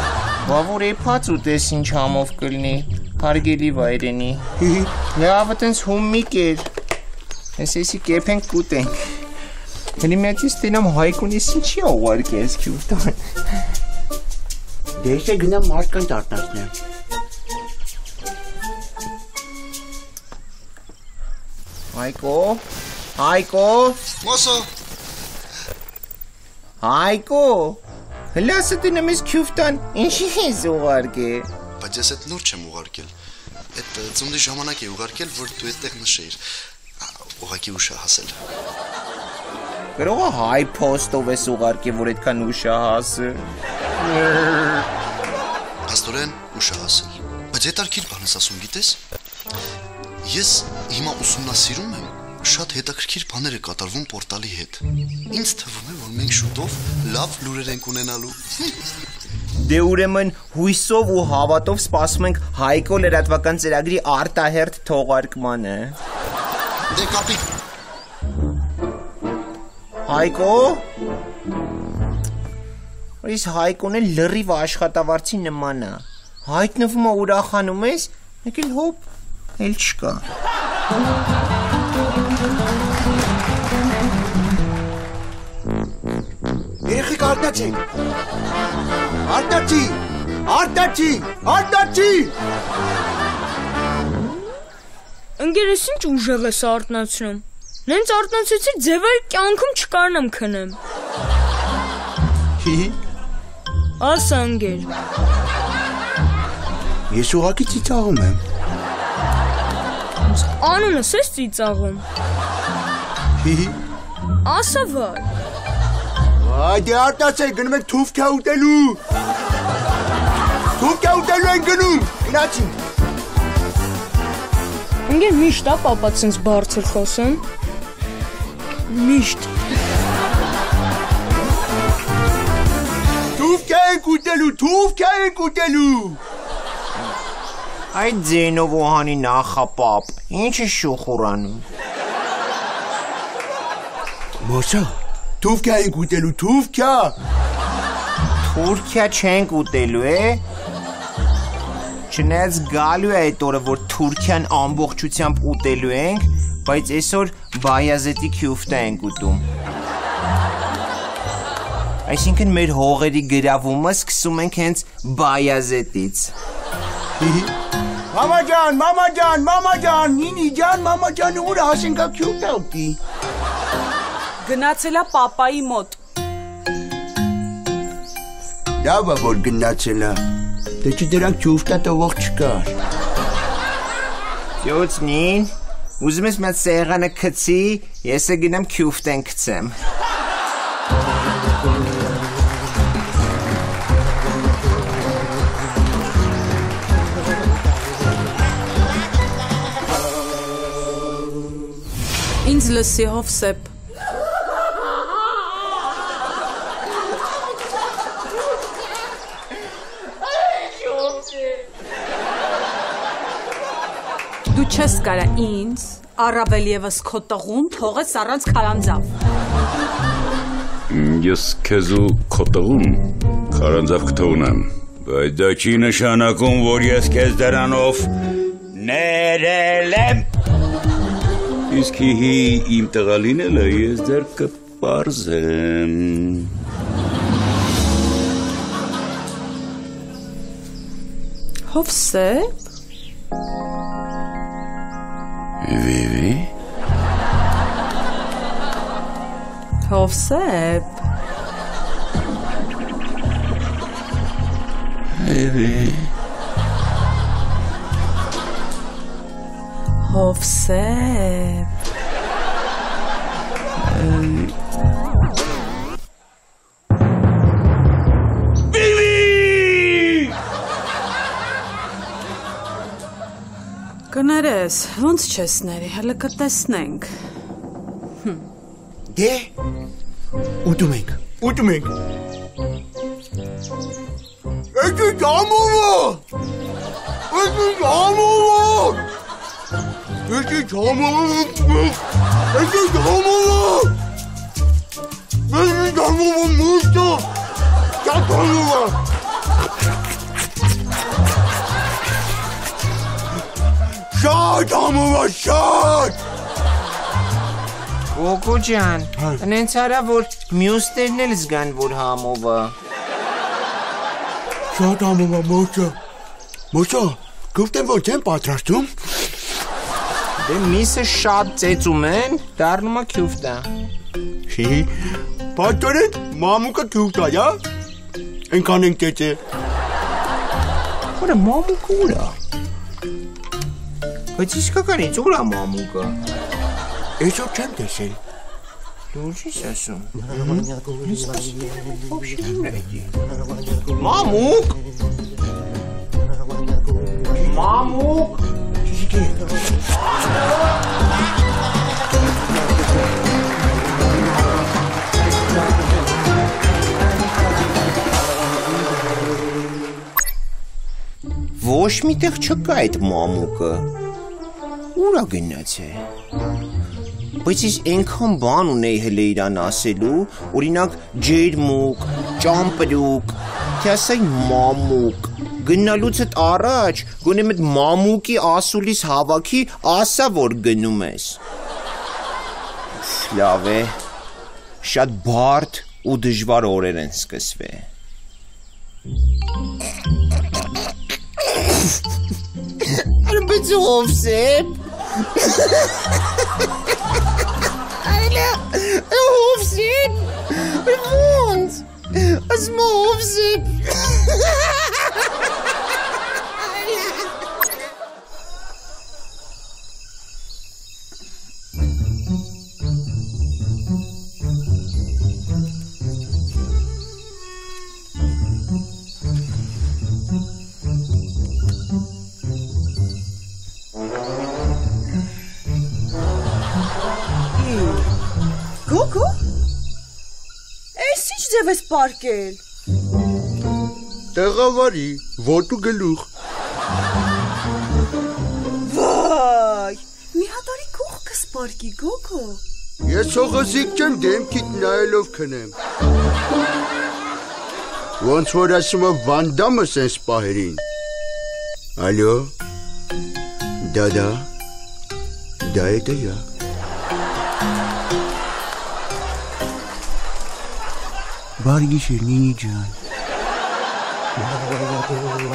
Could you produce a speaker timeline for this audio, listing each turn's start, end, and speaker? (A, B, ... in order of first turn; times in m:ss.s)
0:00.4-0:04.4 A
0:04.6-0:04.9 B
0:05.1-0:06.7 A
0:07.6-0:09.2 A
0:10.0-0:13.4 A
0:15.0-0:16.7 B
0:21.9-0:22.6 A
0:23.2-0:24.0 A
0:24.2-0:24.7 C
0:26.8-0:27.8 A
0:28.3-0:31.5 A
0:31.8-0:33.1 C
0:33.7-0:36.4 C
0:37.0-0:38.5 C
0:40.0-0:43.4 A
0:44.0-0:44.8 A
0:45.8-0:49.0 C
0:50.2-0:58.8 C
0:59.6-1:06.0 A
1:06.9-1:07.5 C
1:10.1-1:10.8 A
1:13.2-1:19.0 A
1:19.6-1:20.2 A
1:26.8-1:27.8 B
1:29.2-1:32.3 B
1:35.4-1:40.8 D
1:42.6-1:43.0 B
1:44.0-1:44.9 D
1:47.1-1:48.4 B
1:50.2-1:52.0 D
1:53.4-1:53.8 B
1:54.4-1:55.3 D
1:56.4-1:59.0 B
2:00.8-2:02.8 B
2:05.1-2:07.4 D
2:08.9-2:09.5 D
2:13.4-2:16.2 B
2:17.9-2:21.7 A
2:24.4-2:27.2 B
2:28.4-2:30.4 A
2:32.1-2:39.4 A
2:42.0-2:46.3 A
2:47.1-2:47.5 B
2:48.1-2:53.0 B
2:54.4-2:56.0 E
2:58.8-3:00.2 B
3:00.8-3:02.7 B
3:04.6-3:09.8 A
3:22.4-3:23.7 F
3:34.5-3:39.1 F
3:40.9-3:48.1 G
3:48.7-3:50.3 G
3:51.7-3:56.6 G
4:01.7-4:02.6 F
4:05.6-4:06.5 G
4:09.8-4:11.0 F
4:15.2-4:16.1 G
4:20.0-4:21.7 F
4:23.8-4:24.5 G
4:28.8-4:29.7 G
4:34.1-4:37.1 F
4:38.2-4:38.5 F
4:39.1-4:39.5 B
4:40.6-4:41.9 B
4:44.7-4:46.2 B
4:47.3-4:49.0 B
4:50.3-4:53.9 B
4:55.5-4:57.3 B
4:58.0-4:59.0 B
5:04.1-5:06.2 B
5:08.1-5:12.8 A
5:09.2-5:09.4 B
5:14.7-5:16.0 B
5:16.7-5:19.3 B
5:20.4-5:23.7 A
5:24.5-5:27.6 B
5:28.5-5:29.4 B
5:31.2-5:32.4 A
5:34.3-5:36.2 A
5:37.2-5:38.2 B
5:39.1-5:40.1 A
5:40.3-5:40.7 B
5:41.0-5:43.1 A
5:44.0-5:44.8 A
5:47.3-5:48.4 A
5:48.8-5:49.6 B
6:01.6-6:03.9 A
6:04.9-6:06.0 A
6:07.4-6:21.4 A
6:23.0-6:24.0 A
6:24.8-6:27.9 A
6:32.8-6:34.8 A
6:35.3-6:35.9 A
6:38.0-6:45.0 A
6:46.6-6:47.3 A
7:07.6-7:08.1 E
7:08.8-7:09.4 E
7:11.0-7:12.6 E
7:14.3-7:16.3 B
7:18.8-7:22.6 E
7:23.0-7:25.7 B
7:28.2-7:30.8 B
7:32.0-7:32.5 B
7:33.8-7:34.5 B
7:35.6-7:36.4 B
7:41.6-7:43.0 B